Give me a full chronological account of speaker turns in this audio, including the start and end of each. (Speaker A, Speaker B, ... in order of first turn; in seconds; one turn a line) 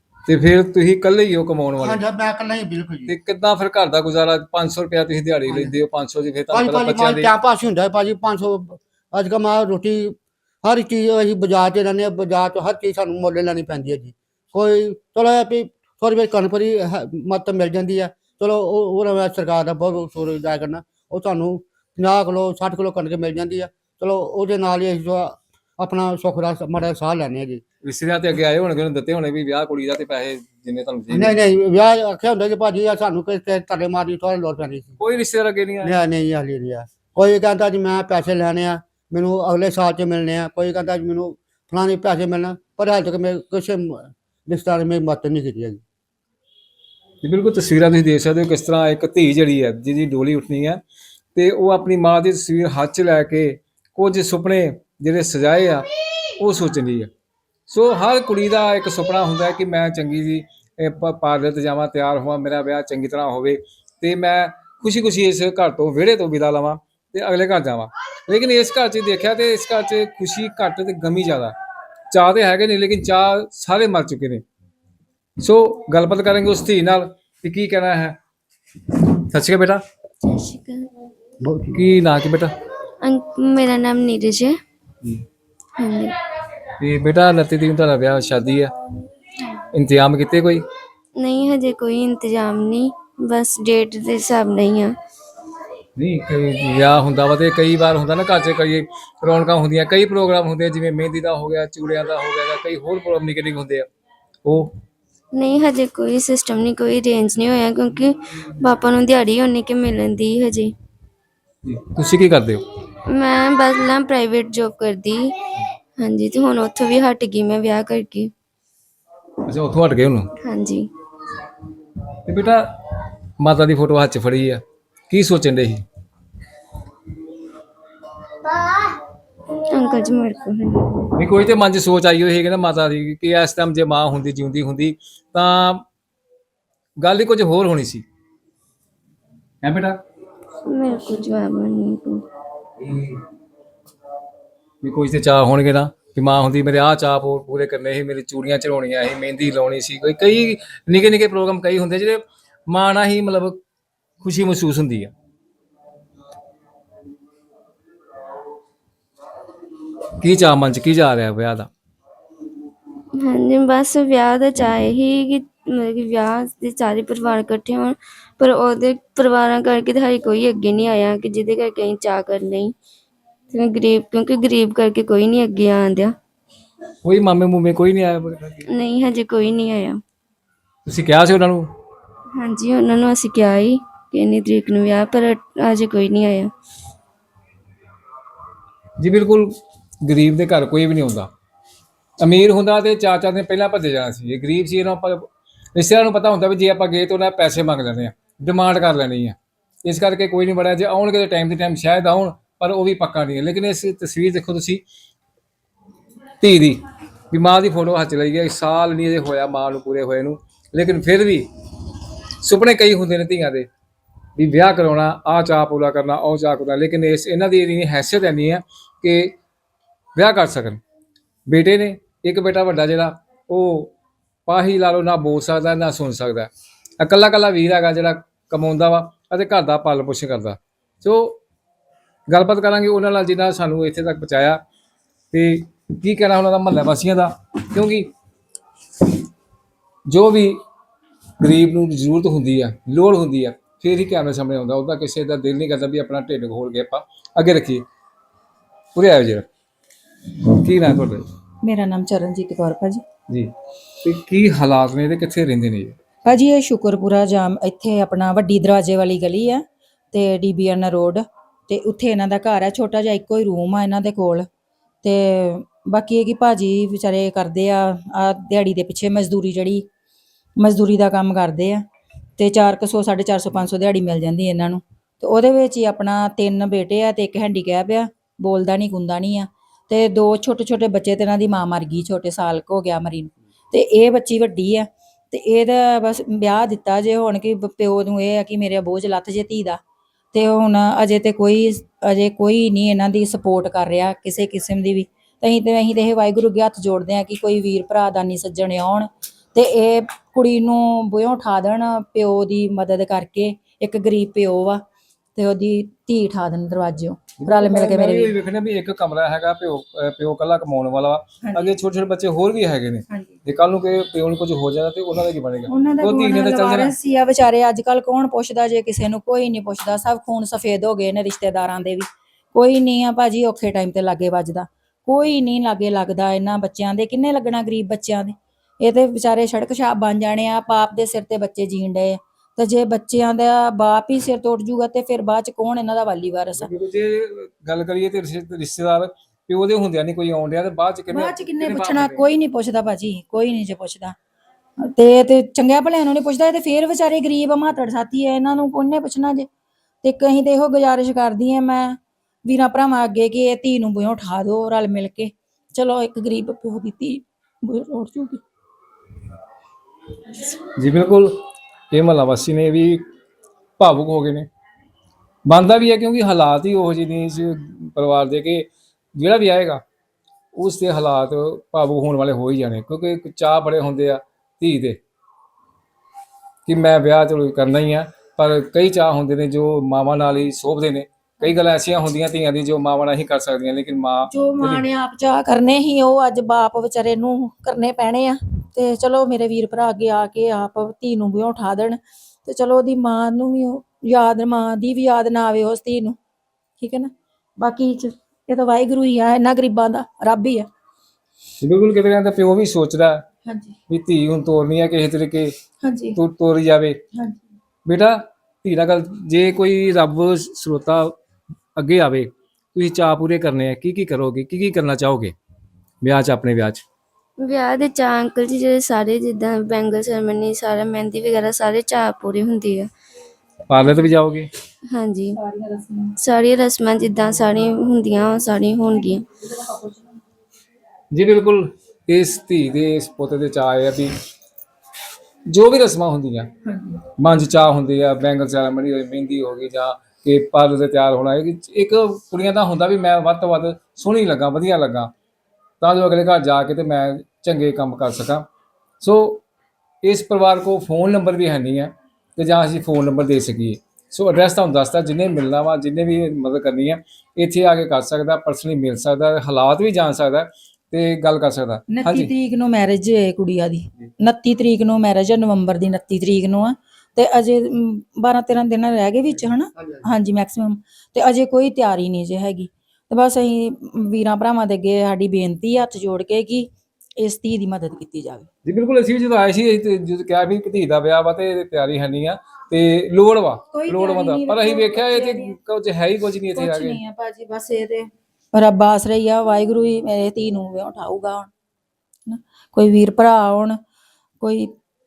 Speaker A: 0.2-2.0
Speaker B: 1.8-3.1
Speaker A: 3.1-7.3
Speaker B: 5.5-5.7
Speaker B: 6.5-27.6
Speaker A: 27.8-31.3
Speaker B: 31.1-35.0
Speaker A: 35.0-35.9
Speaker B: 35.8-45.8
Speaker A: 47.2-50.8
Speaker A: 51.3-55.8
Speaker A: 56.4-57.1
Speaker A: 57.7-71.5
Speaker A: 72.1-74.4
Speaker A: 75.4-78.2
Speaker A: 79.1-79.8
Speaker C: 80.2-80.9
Speaker B: 81.4-81.8
Speaker A: 81.7-82.5
Speaker C: 83.0-84.5
Speaker C: 85.8-86.1
Speaker A: 86.8-88.7
Speaker A: 89.7-90.6
Speaker C: 91.2-94.9
Speaker A: 96.0-103.9
Speaker A: 104.4-104.7
Speaker C: 105.3-110.7
Speaker A: 111.6-112.6
Speaker C: 113.0-115.3
Speaker C: 116.0-118.3
Speaker A: 119.5-120.3
Speaker C: 120.4-120.9
Speaker A: 122.2-122.8
Speaker A: 123.4-125.8
Speaker C: 129.6-131.1
Speaker A: 131.2-135.8
Speaker A: 137.0-138.0
Speaker A: 139.6-140.0
Speaker C: 140.7-142.2
Speaker A: 142.8-143.2
Speaker A: 144.8-153.6
Speaker A: 154.2-155.1
Speaker A: 160.2-161.7
Speaker C: 163.2-172.7
Speaker C: 173.5-176.1
Speaker A: 177.0-178.7
Speaker C: 178.7-180.0
Speaker A: 180.8-181.7
Speaker C: 182.4-186.5
Speaker A: 189.0-189.5
Speaker A: 190.0-191.3
Speaker A: 192.2-204.8
Speaker A: 206.4-211.5
Speaker A: 212.4-213.7
Speaker A: 214.4-219.3
Speaker A: 220.2-220.8
Speaker A: 221.5-223.9
Speaker A: 224.5-226.5
Speaker A: 227.0-231.4
Speaker A: 232.3-234.6
Speaker A: 235.3-238.1
Speaker A: 240.1-240.6
Speaker A: 241.4-247.8
Speaker A: 248.9-249.5
Speaker A: 250.5-251.2
Speaker D: 251.6-253.0
Speaker A: 254.0-256.0
Speaker D: 256.2-264.4
Speaker D: 265.0-269.9
Speaker D: 270.6-271.8
Speaker D: 272.4-289.8
Speaker D: 290.3-304.8
Speaker D: 305.3-308.3
Speaker A: 307.4-316.9
Speaker D: 311.4-311.7
Speaker D: 315.7-336.7
Speaker A: 336.6-342.3
Speaker D: 341.1-344.1
Speaker D: 344.8-349.5
Speaker D: 350.0-358.4
Speaker A: 360.6-361.4
Speaker A: 361.9-363.0
Speaker A: 363.8-364.5
Speaker A: 365.4-369.8
Speaker A: 370.5-375.0
Speaker A: 376.6-384.9
Speaker D: 384.3-396.2
Speaker D: 396.8-400.7
Speaker A: 401.6-403.2
Speaker D: 403.4-403.7
Speaker A: 403.9-405.5
Speaker D: 405.8-406.2
Speaker A: 406.1-407.0
Speaker D: 407.1-407.4
Speaker A: 407.8-411.2
Speaker A: 411.8-415.3
Speaker A: 416.0-416.8
Speaker C: 417.4-422.9
Speaker A: 423.7-424.5
Speaker C: 424.9-425.4
Speaker D: 425.4-426.1
Speaker C: 426.2-429.2
Speaker D: 429.5-430.0
Speaker A: 431.1-434.1
Speaker A: 435.5-436.5
Speaker A: 437.2-445.1
Speaker A: 445.8-448.4
Speaker A: 449.0-449.4
Speaker A: 450.0-462.3
Speaker D: 461.9-476.7
Speaker B: 469.8-470.0
Speaker D: 477.2-478.5
Speaker A: 478.6-487.0
Speaker D: 483.7-485.6
Speaker D: 486.5-491.5
Speaker D: 492.3-493.8
Speaker D: 494.4-494.7